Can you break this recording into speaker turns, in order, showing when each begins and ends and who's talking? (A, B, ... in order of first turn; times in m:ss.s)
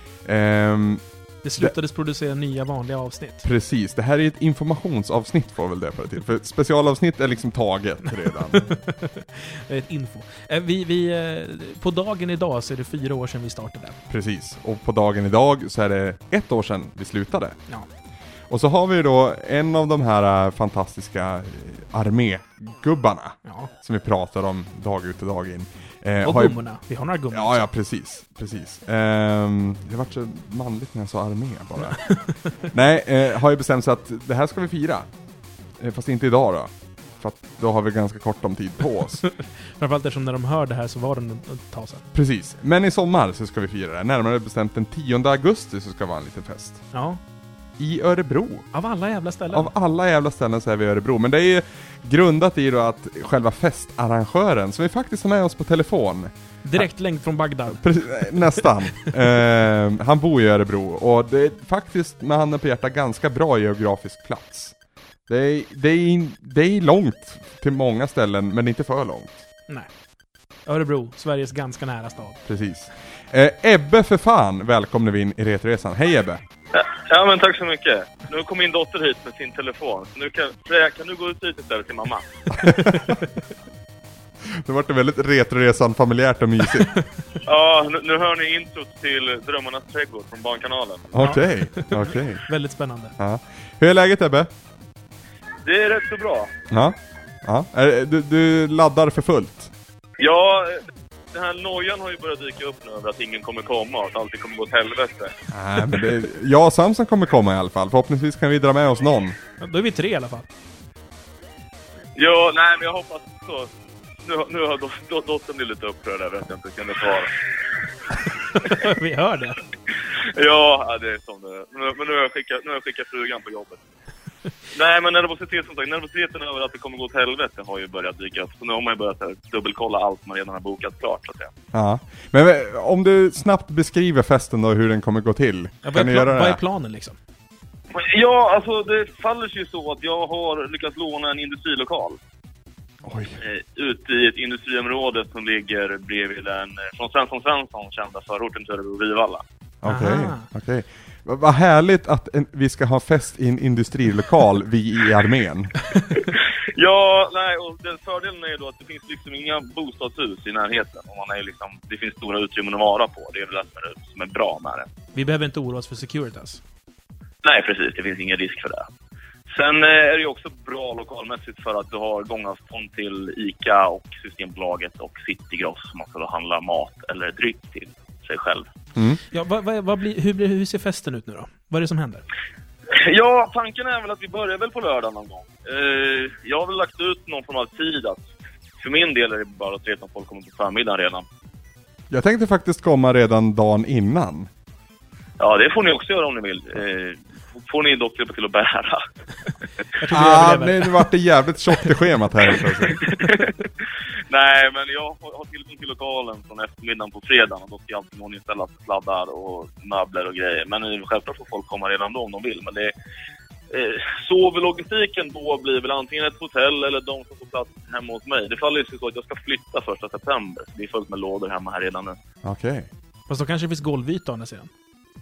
0:00.2-0:01.0 A
0:01.4-0:03.4 B
0:03.4-0:08.6 A
0:08.4-0:14.0 B
0:14.1-0:17.6 A
0:18.5-0:26.6 A
0:23.4-0:23.7 B
0:26.2-0:27.6 B
0:27.3-0:32.1 A
0:31.8-0:32.5 B
0:32.6-0:35.1 A
0:35.8-0:39.2 A
0:39.0-0:42.0 B
0:42.1-0:46.8 A
0:46.9-0:47.2 B
0:47.8-0:48.7 A
0:48.7-0:49.7 B
0:49.5-0:56.9 A
0:56.6-0:58.7 B
0:57.7-1:04.7 A
1:05.3-1:09.4 A
1:10.6-1:12.4 B
1:12.4-1:16.4 A
1:16.7-1:22.4 C
1:22.5-1:23.2 A
1:22.8-1:23.2 B
1:24.5-1:26.9 A
1:26.6-1:27.0 B
1:27.4-1:31.1 C
1:31.1-1:32.4 A
1:31.2-1:33.1 B
1:33.2-1:34.5 A
1:35.6-1:36.5 C
1:36.7-1:39.7 A
1:40.2-1:40.8 C
1:41.3-1:45.3 C
1:45.5-1:49.4 A
1:49.6-1:50.5 B
1:52.2-1:53.7 C
1:54.2-1:57.3 C
1:58.6-1:59.6 B
2:00.2-2:03.8 C
2:04.7-2:11.5 C
2:11.7-2:16.6 A
2:15.8-2:17.2 B
2:17.9-2:22.2 C
2:23.0-2:23.4 A
2:23.4-2:29.4 C
2:29.8-2:35.8 A
2:29.8-2:30.4 B
2:36.7-2:44.9 C
2:45.1-2:46.6 B
2:47.4-2:48.8 C
2:49.5-2:58.6 C
2:58.9-2:59.2 A
2:59.3-3:02.2 B
3:02.9-3:08.2 C
3:08.8-3:11.2 C
3:12.1-3:14.5 A
3:15.4-3:19.0 C
3:20.0-3:21.0 B
3:20.1-3:23.1 A
3:23.0-3:23.5 C
3:24.3-3:32.9 C
3:33.7-3:42.2 C
3:42.4-3:42.9 A
3:43.3-3:44.7 B